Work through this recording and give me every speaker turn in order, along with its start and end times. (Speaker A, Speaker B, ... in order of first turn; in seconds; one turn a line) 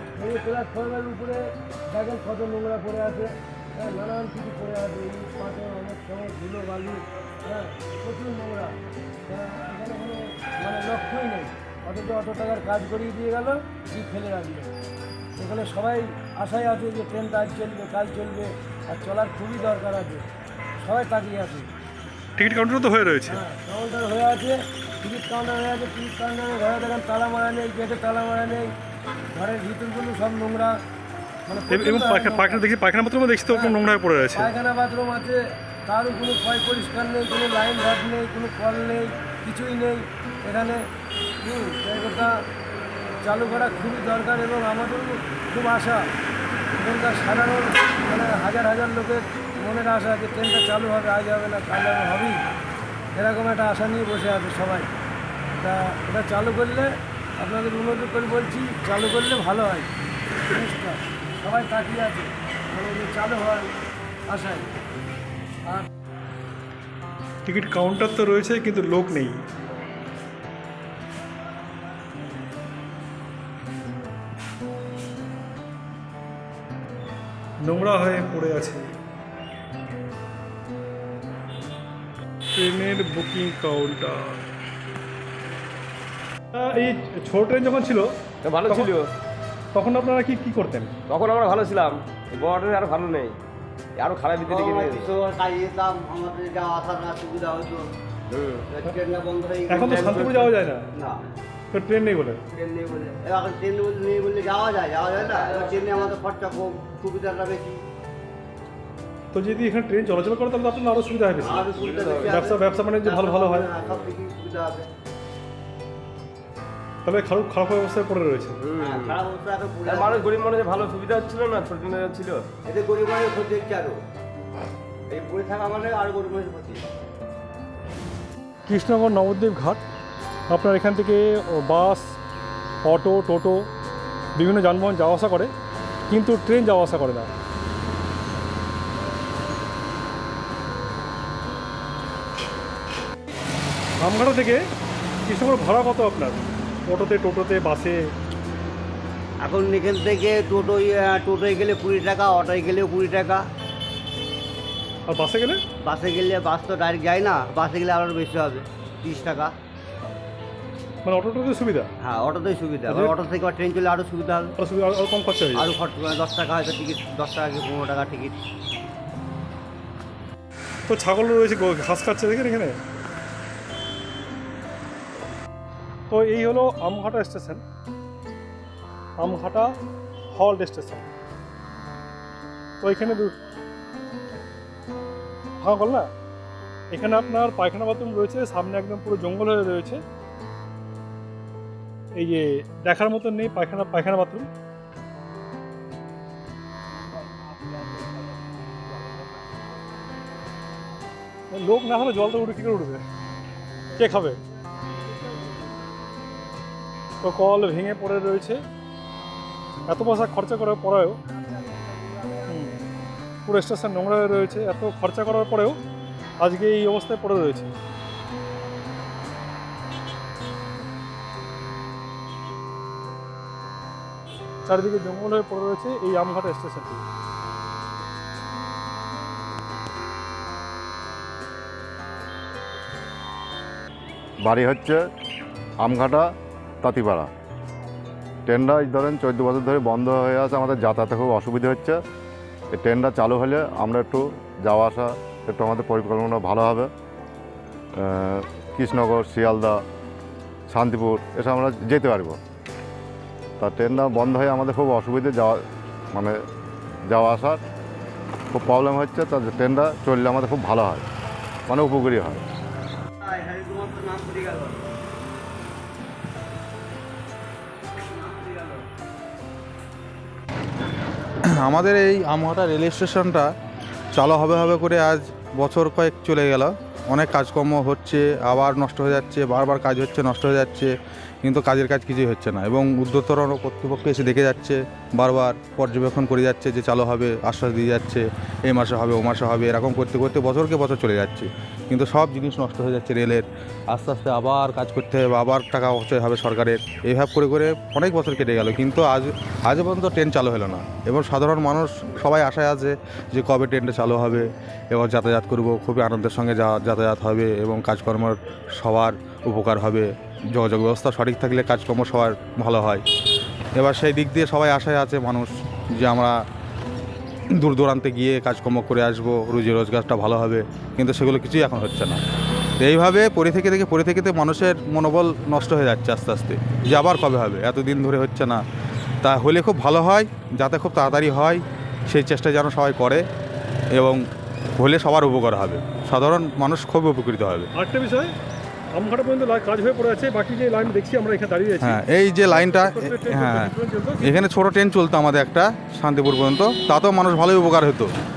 Speaker A: 0.1-8.7
Speaker A: 9.3-14.7
Speaker A: 15.4-20.3
Speaker A: 20.8-21.7
Speaker B: 22.4-23.4
Speaker A: 23.3-28.7
Speaker A: 29.3-30.7
Speaker A: 31.5-32.6
Speaker B: 31.7-34.5
Speaker A: 34.3-40.8
Speaker A: 41.4-42.3
Speaker A: 43.2-46.0
Speaker A: 46.8-52.4
Speaker A: 53.1-54.9
Speaker A: 55.6-59.9
Speaker A: 60.5-63.7
Speaker A: 64.3-64.7
Speaker B: 67.5-69.4
Speaker B: 77.6-78.8
Speaker B: 82.5-84.4
Speaker B: 86.5-88.1
Speaker C: 88.4-89.1
Speaker B: 88.7-89.0
Speaker B: 89.7-90.9
Speaker C: 91.1-93.4
Speaker C: 94.0-95.0
Speaker D: 94.4-97.9
Speaker C: 98.3-98.6
Speaker D: 98.7-100.4
Speaker B: 99.7-100.9
Speaker B: 101.7-102.4
Speaker D: 102.5-107.8
Speaker B: 109.3-113.8
Speaker D: 111.4-114.9
Speaker C: 111.8-112.3
Speaker B: 117.0-118.7
Speaker C: 118.7-119.0
Speaker D: 118.8-120.4
Speaker C: 119.9-122.5
Speaker D: 122.7-124.0
Speaker D: 125.1-126.8
Speaker B: 128.7-129.8
Speaker B: 130.5-132.0
Speaker B: 132.8-133.7
Speaker B: 134.3-135.5
Speaker B: 136.1-137.3
Speaker B: 144.0-144.7
Speaker B: 145.3-148.0
Speaker D: 149.4-153.4
Speaker B: 155.1-155.6
Speaker D: 155.8-159.5
Speaker B: 161.0-161.9
Speaker D: 162.0-164.5
Speaker B: 164.6-165.7
Speaker D: 165.6-168.4
Speaker B: 170.9-172.8
Speaker B: 176.1-177.6
Speaker B: 179.2-179.7
Speaker B: 180.3-181.1
Speaker B: 182.8-183.3
Speaker B: 185.6-186.1
Speaker B: 186.9-190.0
Speaker B: 192.2-194.5
Speaker B: 201.5-203.0
Speaker B: 204.0-204.4
Speaker B: 207.2-208.6
Speaker B: 209.9-211.2
Speaker B: 212.5-212.8
Speaker B: 213.5-215.8
Speaker B: 216.4-217.7
Speaker B: 224.7-227.0
Speaker E: 234.4-235.0
Speaker E: 235.8-236.3
Speaker E: 236.8-237.3
Speaker E: 238.5-242.0
Speaker E: 242.7-246.9
Speaker E: 248.0-249.8
Speaker E: 250.7-252.4
Speaker E: 253.6-255.6
Speaker E: 256.1-256.4
Speaker E: 257.1-257.6
Speaker E: 258.5-261.1
Speaker E: 261.7-262.4
Speaker D: 263.2-264.8
Speaker D: 268.0-268.8
Speaker F: 271.5-273.5
Speaker F: 274.1-280.9
Speaker F: 281.4-313.0
Speaker F: 313.8-316.3
Speaker F: 317.5-322.2
Speaker F: 322.8-328.6
Speaker F: 329.2-333.2
Speaker F: 333.9-334.2
Speaker F: 334.8-337.7
Speaker B: 337.7-338.3
Speaker B: 338.9-344.4
Speaker F: 341.8-343.7
Speaker F: 344.2-348.1